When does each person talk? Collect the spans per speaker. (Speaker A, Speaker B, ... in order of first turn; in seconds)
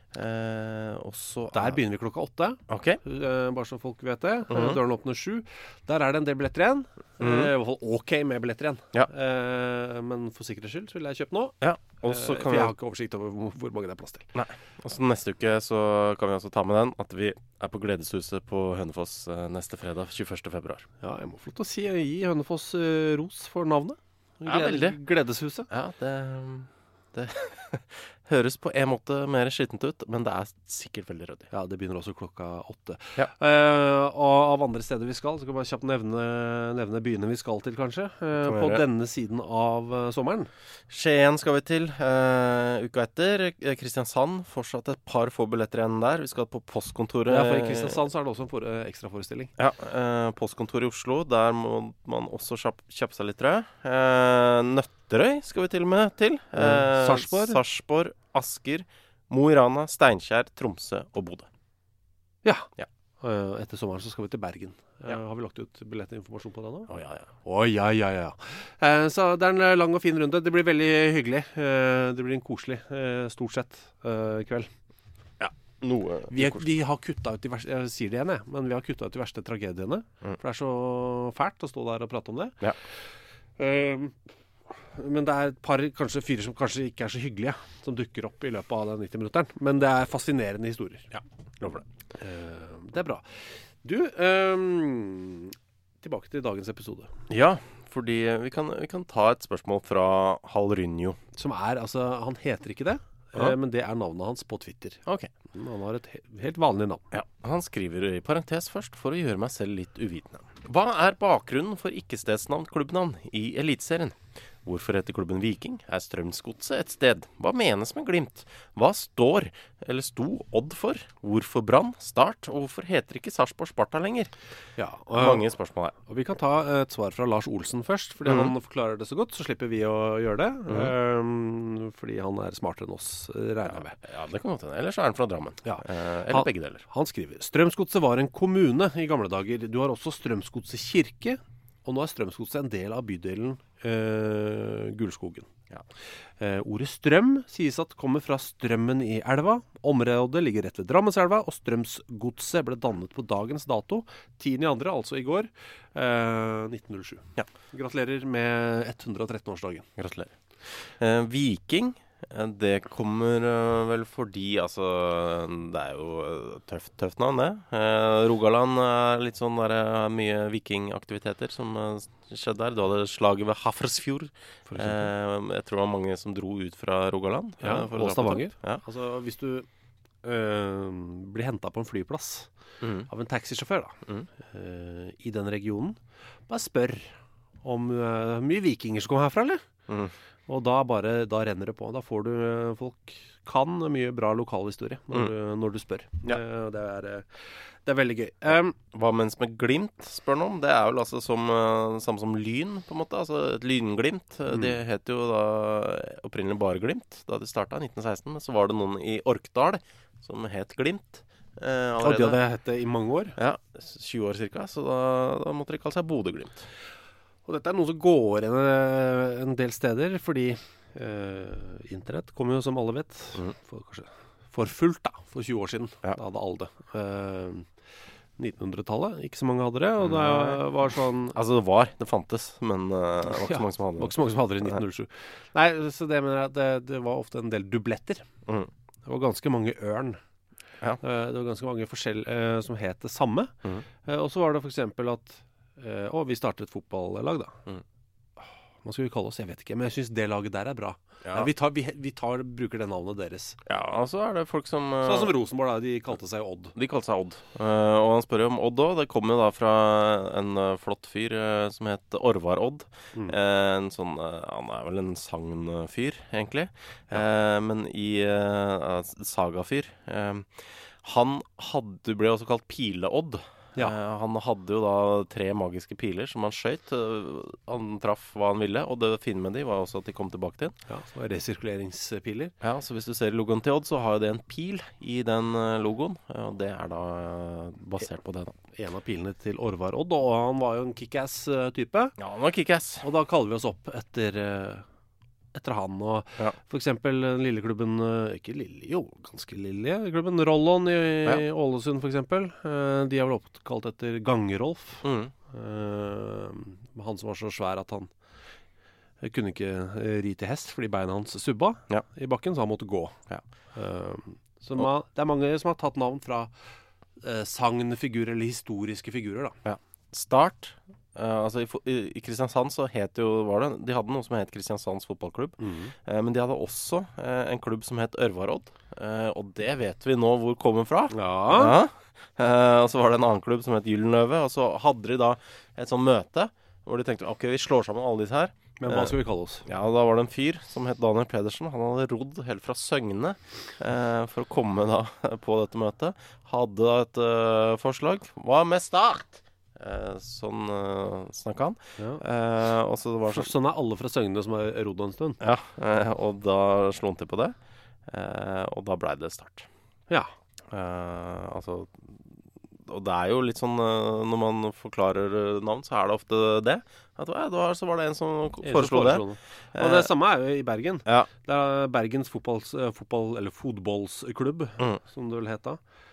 Speaker A: 0.1-1.8, 2.7-3.0, 4.5-4.8, 7.2-7.5, 11.6-12.7, 14.3-20.9, 24.4-25.0, 25.7-31.5, 38.4-38.8, 40.9-48.0, 49.6-61.5, 66.9-67.3, 75.4-76.7, 91.6-91.8, 97.3-101.2, 105.0-105.3, 107.1-124.3, 125.1-126.0, 128.2-128.5, 130.7-130.9, 133.7-136.8, 160.0-178.8, 182.8-183.1, 189.9-190.1, 198.9-212.4, 213.3-216.7, 230.0-230.6, 231.3-234.8, 251.2-251.5, 253.7-255.3, 256.7-280.8, 282.6-288.6, 292.2-293.0, 305.0-305.3, 319.6-353.5, 355.4-357.6, 358.1-359.7, 360.7-362.2, 362.9-370.1
Speaker B: 1.5-14.3, 21.0-25.7, 31.5-40.5, 47.3-49.5, 56.6-57.6, 62.4-62.7, 63.2-66.9, 67.4-74.7, 76.3-82.6, 83.6-84.1, 84.9-91.2, 92.2-97.1, 101.3-105.0, 105.5-107.0, 124.8-125.5, 126.1-134.0, 135.6-145.5, 146.4-159.9, 174.7-175.1, 177.6-179.7, 180.2-182.5, 183.1-186.0, 186.5-189.6, 190.5-198.8, 204.5-204.8, 212.0-213.3, 217.4-227.7, 228.4-231.3, 233.2-238.2, 239.1-240.2, 241.0-243.5, 244.0-247.6, 248.4-253.6, 255.0-256.7, 280.9-282.5, 288.7-292.1, 293.0-294.8, 295.5-308.1, 309.2-313.2, 313.7-316.5, 317.2-319.6, 325.6-325.9, 331.1-331.8, 338.8-339.6, 352.0-352.2, 353.3-355.4, 368.6-375.8